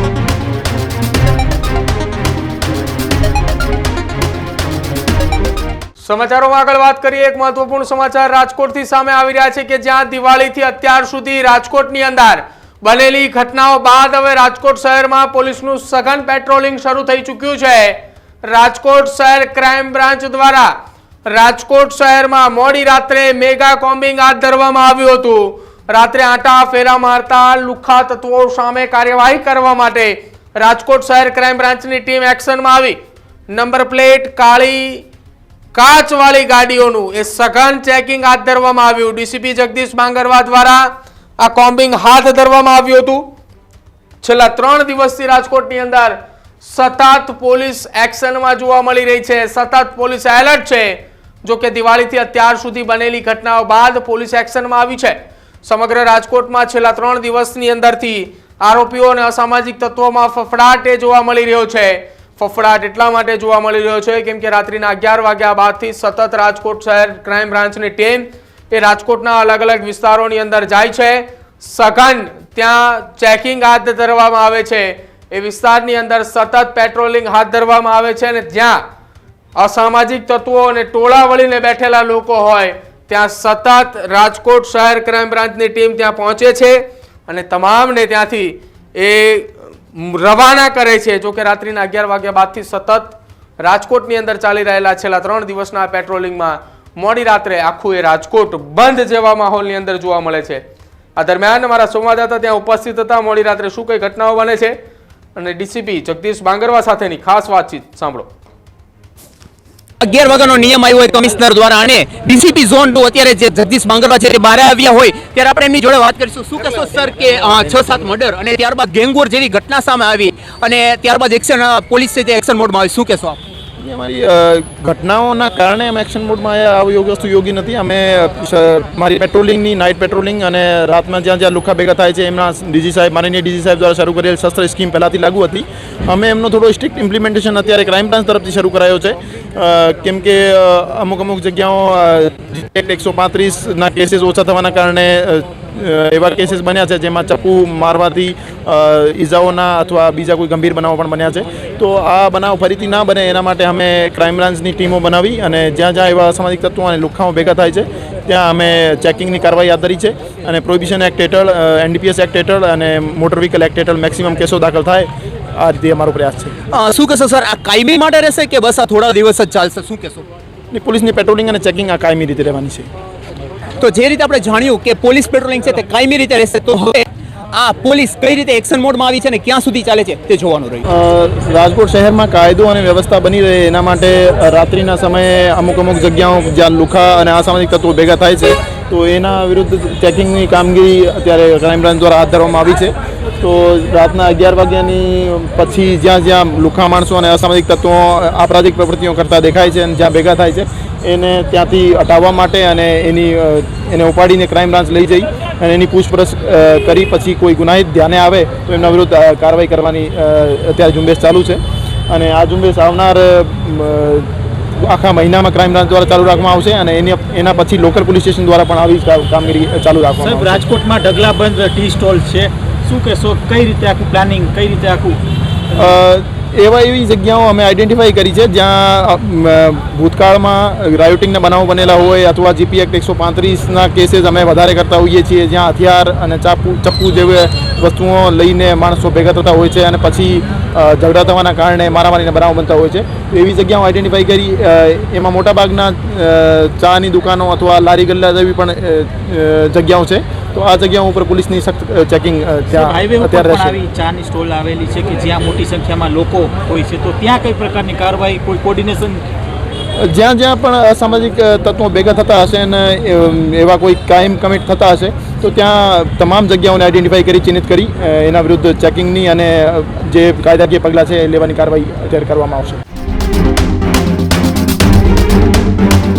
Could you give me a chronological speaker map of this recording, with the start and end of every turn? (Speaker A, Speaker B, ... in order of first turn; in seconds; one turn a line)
Speaker A: 6.0-20.7
Speaker A: 21.3-33.0
Speaker A: 33.5-35.0
Speaker A: 35.7-40.9
Speaker A: 41.4-43.2
Speaker A: 44.2-78.8
Speaker A: 79.6-100.6
Speaker A: 101.2-104.8
Speaker A: 105.3-108.3
Speaker B: 110.0-123.4
Speaker C: 123.8-166.5
Speaker B: 166.7-170.2
Speaker C: 170.7-172.9
Speaker B: 173.8-180.8
Speaker C: 180.8-220.6
Speaker D: 220.2-225.2
Speaker C: 225.8-253.8
Speaker D: 252.7-259.2
Speaker C: 260.0-272.8